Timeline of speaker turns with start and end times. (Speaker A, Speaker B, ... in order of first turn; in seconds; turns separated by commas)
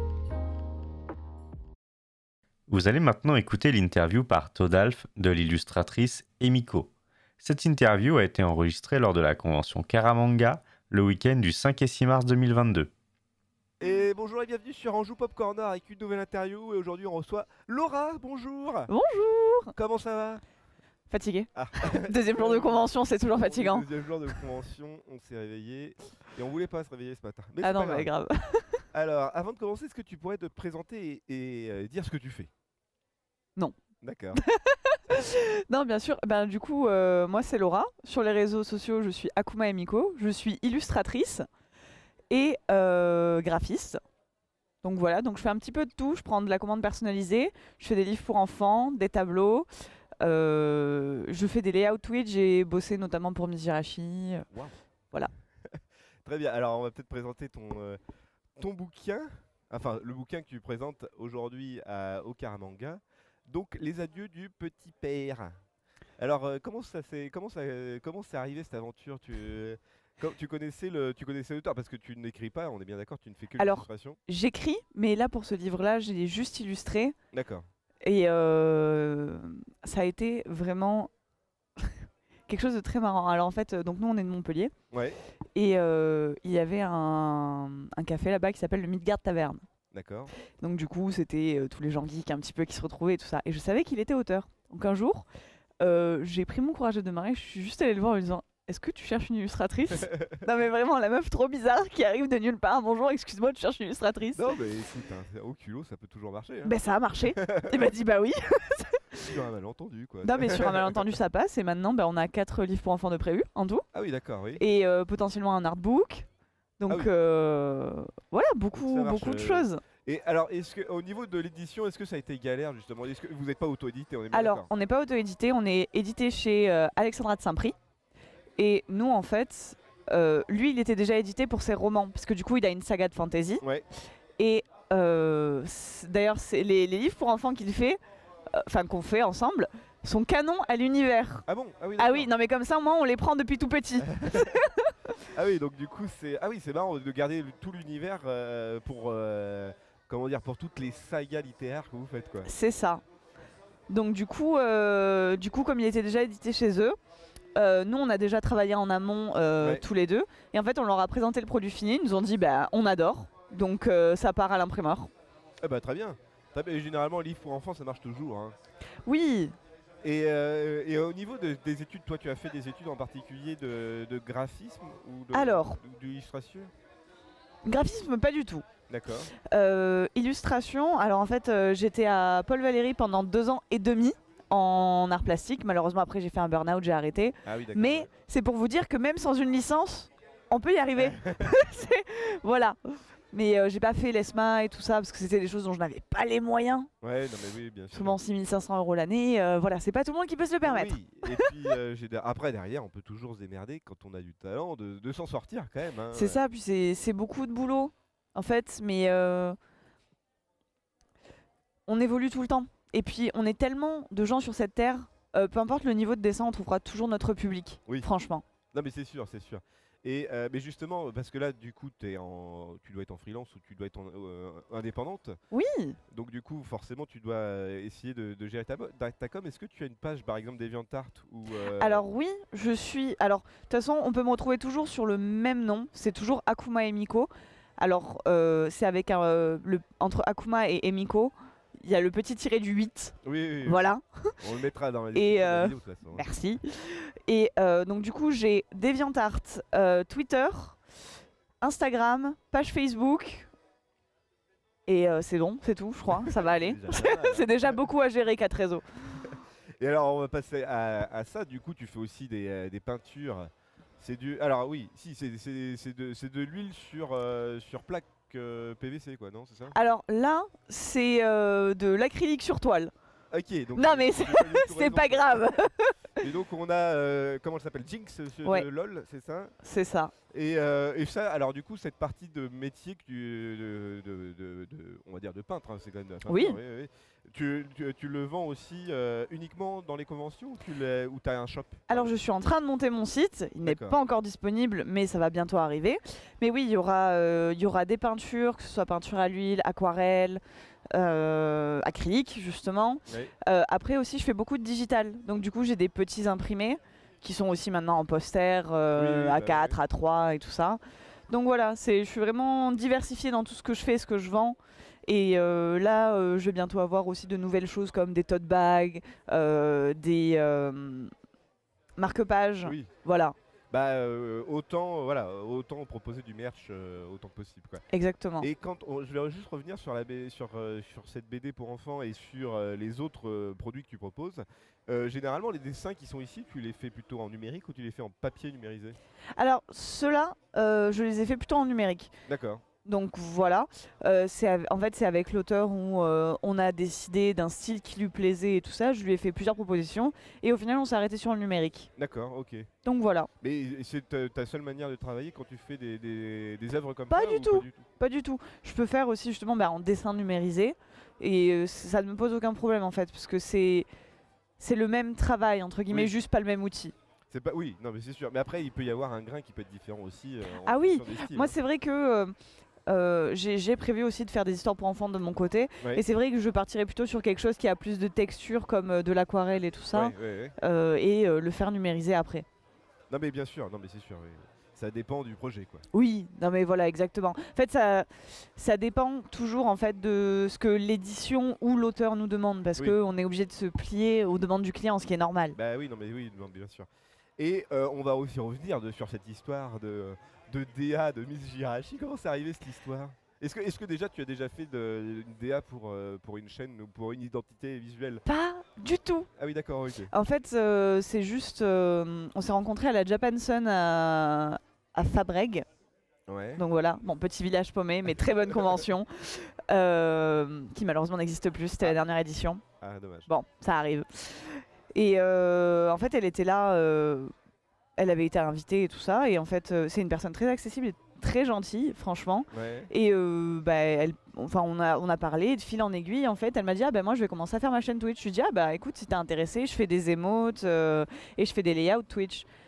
Speaker A: 2.7-12.9, Speaker B: 13.8-18.9, Speaker C: 18.9-19.7, Speaker B: 19.7-20.4, Speaker C: 21.1-24.3, Speaker B: 21.5-28.1, Speaker C: 27.6-28.8, Speaker B: 28.9-32.5, Speaker B: 34.0-34.4, Speaker C: 34.3-41.5, Speaker C: 42.3-44.0, Speaker C: 44.8-49.7, Speaker C: 50.2-54.5, Speaker B: 54.5-54.8, Speaker B: 55.7-58.0, Speaker B: 58.6-65.5, Speaker B: 66.2-74.2, Speaker C: 73.6-77.1, Speaker B: 77.3-77.7, Speaker C: 78.0-81.1, Speaker C: 82.5-84.7, Speaker B: 84.9-85.2, Speaker C: 85.5-89.6, Speaker B: 89.9-90.3, Speaker C: 90.6-95.2, Speaker C: 95.8-104.5, Speaker B: 100.0-100.4, Speaker B: 104.3-107.9, Speaker C: 106.6-109.3, Speaker B: 109.2-111.0, Speaker C: 110.2-113.8, Speaker B: 113.9-114.6, Speaker C: 114.6-116.3, Speaker C: 116.8-119.8, Speaker B: 118.7-124.7, Speaker C: 124.3-127.7, Speaker C: 128.6-133.6, Speaker C: 134.4-138.0, Speaker C: 138.5-141.4, Speaker B: 141.4-142.3, Speaker C: 142.0-144.9, Speaker B: 144.0-144.6, Speaker B: 145.3-152.5, Speaker C: 152.4-153.0, Speaker C: 153.9-156.9, Speaker C: 157.5-165.1, Speaker B: 159.6-159.8, Speaker B: 165.6-168.6, Speaker C: 169.0-169.6, Speaker B: 170.0-176.7, Speaker C: 175.3-175.8, Speaker C: 177.6-178.6, Speaker B: 178.9-179.3, Speaker C: 179.4-192.8, Speaker B: 187.4-188.1, Speaker B: 190.9-191.5, Speaker C: 193.3-196.9, Speaker B: 197.0-198.2, Speaker C: 197.9-201.7, Speaker B: 200.6-206.4, Speaker C: 206.1-209.6, Speaker C: 211.9-218.4, Speaker B: 218.7-225.4, Speaker C: 225.5-226.0, Speaker B: 226.1-232.0, Speaker C: 231.7-244.3, Speaker B: 243.2-243.8, Speaker B: 244.4-246.2, Speaker C: 245.1-250.8, Speaker C: 251.6-253.5, Speaker C: 254.8-258.8, Speaker B: 256.2-257.8, Speaker B: 259.2-269.8, Speaker C: 269.7-272.9, Speaker B: 273.3-275.5, Speaker C: 273.7-276.2, Speaker B: 276.2-279.5, Speaker C: 279.6-280.1, Speaker B: 280.3-292.1, Speaker C: 286.2-286.6, Speaker C: 291.9-300.4, Speaker B: 293.6-294.0, Speaker C: 300.9-321.1, Speaker B: 303.1-303.3, Speaker B: 308.9-309.8, Speaker C: 322.0-323.3, Speaker B: 322.6-322.9, Speaker B: 323.7-327.8, Speaker C: 327.9-328.5, Speaker B: 328.4-339.0, Speaker C: 339.4-342.1, Speaker B: 342.2-342.6, Speaker C: 342.8-351.9, Speaker B: 352.0-352.7, Speaker C: 352.8-353.3, Speaker B: 353.4-357.9, Speaker C: 357.1-363.9, Speaker C: 364.6-366.9, Speaker B: 365.9-366.1, Speaker B: 367.3-371.5, Speaker C: 370.6-372.3, Speaker C: 372.9-382.4, Speaker B: 379.9-380.6, Speaker B: 383.1-385.8, Speaker C: 385.9-395.6, Speaker B: 395.5-396.9, Speaker B: 397.4-408.2, Speaker C: 408.2-409.3, Speaker B: 409.4-410.1, Speaker C: 410.1-415.6, Speaker B: 416.3-416.6, Speaker C: 416.6-422.6, Speaker B: 422.8-423.3, Speaker C: 423.3-427.3, Speaker C: 428.0-442.5, Speaker B: 432.5-432.9